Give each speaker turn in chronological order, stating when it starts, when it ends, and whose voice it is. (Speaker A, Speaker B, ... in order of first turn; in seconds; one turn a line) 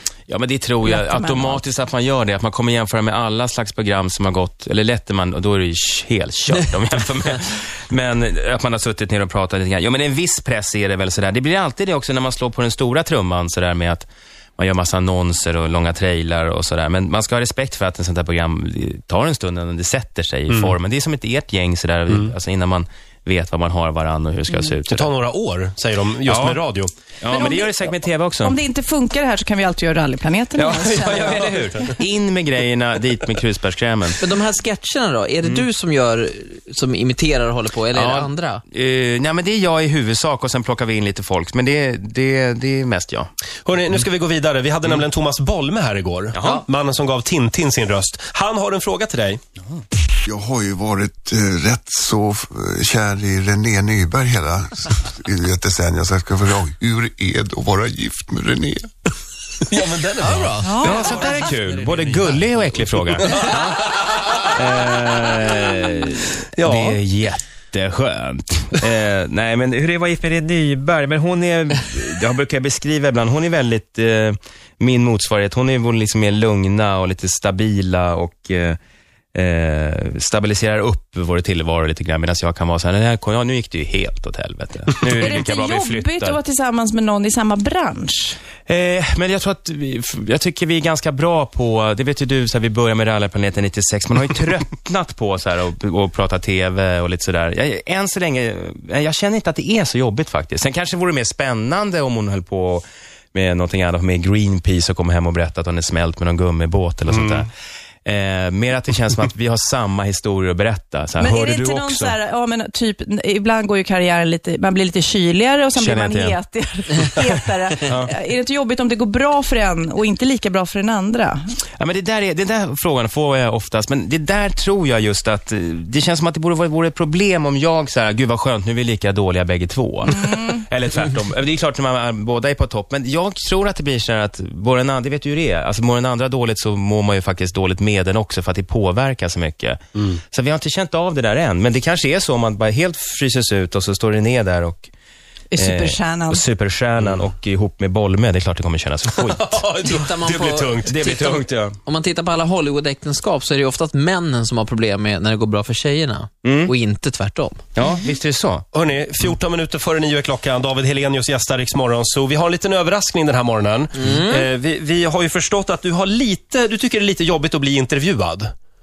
Speaker A: 0.3-25.1
Speaker B: 0.8-1.6
Speaker C: 24.9-26.9
Speaker A: 26.2-26.6
Speaker A: 27.2-28.6
Speaker B: 27.3-31.8
Speaker A: 30.5-34.2
Speaker D: 34.2-38.6
Speaker A: 37.9-43.3
Speaker C: 43.6-49.4
Speaker A: 46.3-46.6
Speaker E: 50.2-58.9
Speaker C: 59.7-60.6
Speaker D: 60.2-62.5
Speaker B: 60.6-61.1
Speaker A: 60.8-63.9
Speaker A: 64.5-78.8
Speaker C: 66.5-67.0
Speaker A: 79.3-86.4
Speaker B: 85.0-88.4
Speaker A: 88.7-107.5
Speaker C: 107.1-107.4
Speaker A: 108.0-112.2
Speaker B: 111.2-121.5
Speaker A: 115.7-116.4
Speaker A: 117.8-118.1
Speaker A: 121.8-144.9
Speaker B: 145.5-146.4
Speaker A: 145.6-149.6
Speaker C: 149.2-150.9
Speaker D: 149.8-157.6
Speaker A: 150.8-151.8
Speaker A: 156.4-156.7
Speaker A: 157.7-158.6
Speaker C: 158.7-168.5
Speaker D: 163.9-164.5